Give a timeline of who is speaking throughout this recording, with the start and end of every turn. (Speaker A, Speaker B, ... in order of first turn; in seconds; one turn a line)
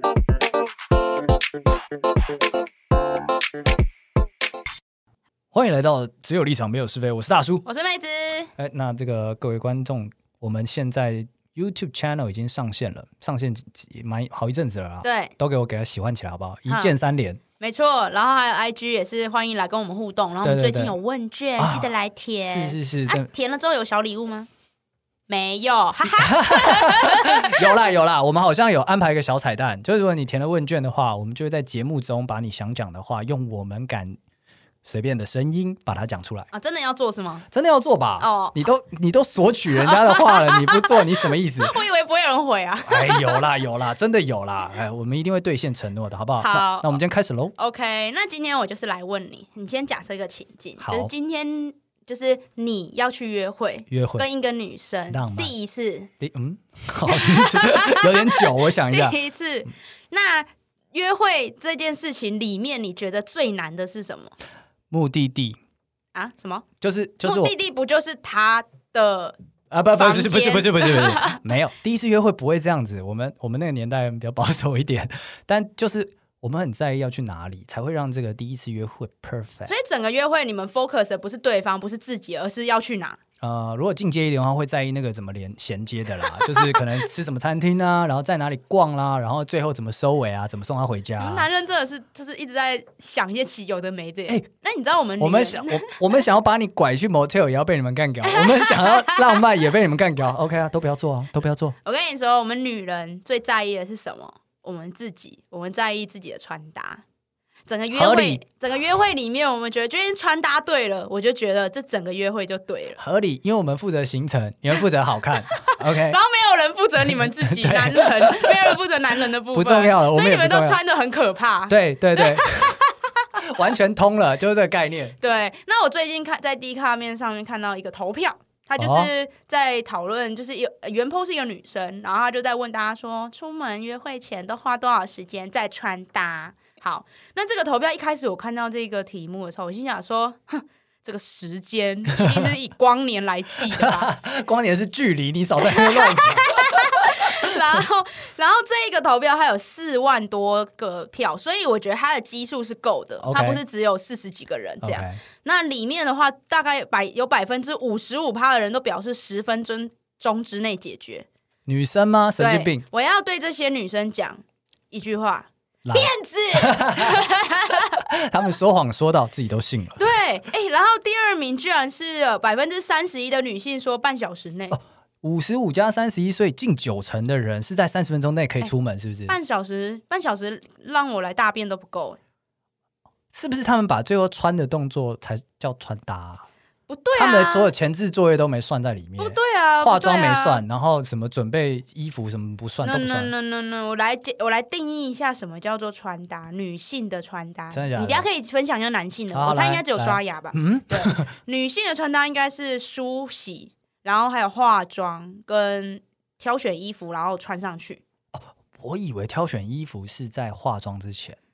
Speaker A: 5.5-7.7
Speaker B: 7.7-8.5
Speaker A: 8.6-17.4
Speaker B: 15.0-15.3
Speaker B: 16.7-16.9
Speaker B: 17.6-24.5
Speaker A: 20.4-21.0
Speaker A: 21.6-21.9
Speaker A: 22.4-23.3
Speaker B: 25.3-27.7
Speaker A: 26.1-34.2
Speaker A: 34.8-36.5
Speaker B: 36.5-37.5
Speaker A: 37.5-41.8
Speaker B: 38.2-38.6
Speaker B: 39.8-43.5
Speaker A: 42.9-47.5
Speaker B: 46.4-47.0
Speaker B: 47.6-56.1
Speaker A: 50.8-51.1
Speaker A: 53.9-54.3
Speaker A: 55.1-55.5
Speaker A: 56.2-59.2
Speaker B: 57.1-64.3
Speaker A: 64.9-65.6
Speaker B: 66.1-66.7
Speaker A: 66.8-67.5
Speaker B: 67.2-69.4
Speaker A: 69.7-79.7
Speaker B: 69.9-71.4
Speaker B: 79.7-83.2
Speaker A: 83.4-91.5
Speaker B: 86.4-86.8
Speaker B: 91.2-95.9
Speaker A: 95.2-101.8
Speaker B: 98.2-99.4
Speaker B: 101.8-107.0
Speaker B: 107.7-113.0
Speaker A: 107.9-108.4
Speaker A: 113.0-116.2
Speaker B: 115.5-123.2
Speaker A: 117.1-118.8
Speaker A: 119.5-120.8
Speaker A: 121.7-122.8
Speaker A: 123.4-125.2
Speaker B: 125.2-144.1
Speaker A: 128.8-129.1
Speaker A: 143.7-147.8
Speaker B: 145.6-161.3
Speaker A: 153.2-153.6
Speaker A: 154.8-155.2
Speaker A: 161.7-162.8
Speaker B: 162.4-168.0
Speaker A: 165.8-167.2
Speaker A: 168.0-170.0
Speaker B: 170.0-174.8
Speaker A: 174.7-179.4
Speaker B: 179.3-182.2
Speaker A: 183.3-186.5
Speaker B: 186.9-187.7
Speaker A: 187.2-193.3
Speaker B: 189.2-190.6
Speaker B: 192.8-208.0
Speaker A: 197.7-198.3
Speaker A: 199.3-201.3
Speaker A: 208.3-211.4